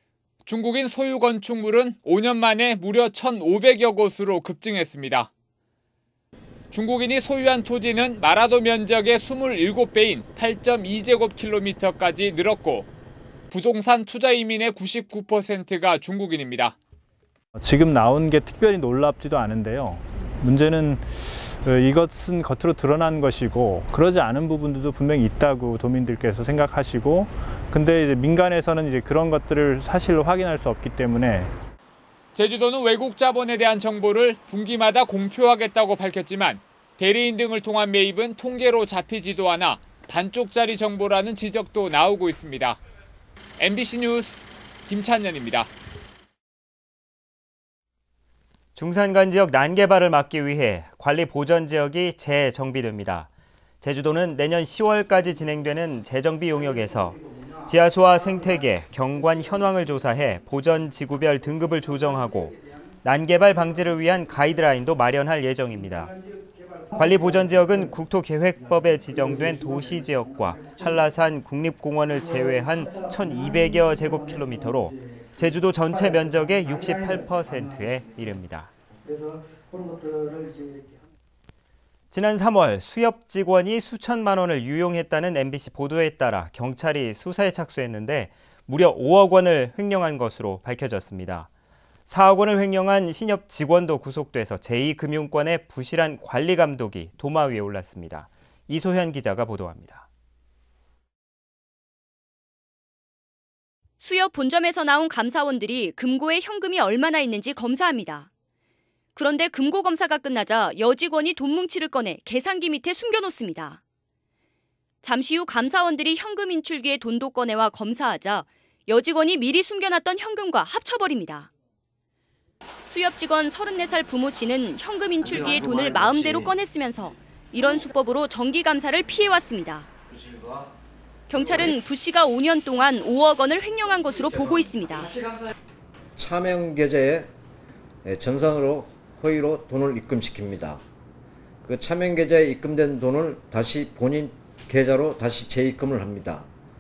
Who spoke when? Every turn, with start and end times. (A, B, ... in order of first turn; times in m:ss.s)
0:00.5-0:05.3 A
0:06.7-0:12.9 A
0:13.5-0:16.8 A
0:17.6-0:31.5 B
0:32.4-0:42.8 A
0:43.6-0:45.7 A
0:48.8-0:53.3 C
0:53.8-1:06.1 C
1:07.0-1:18.7 C
1:22.1-1:31.5 C
1:32.1-1:40.0 C
1:44.0-1:48.3 D
1:49.2-1:53.8 D
1:55.0-2:01.5 D
2:02.9-2:09.9 D
2:11.3-2:15.1 D
2:16.2-2:17.3 E
2:18.0-2:20.8 E
2:21.6-2:26.5 E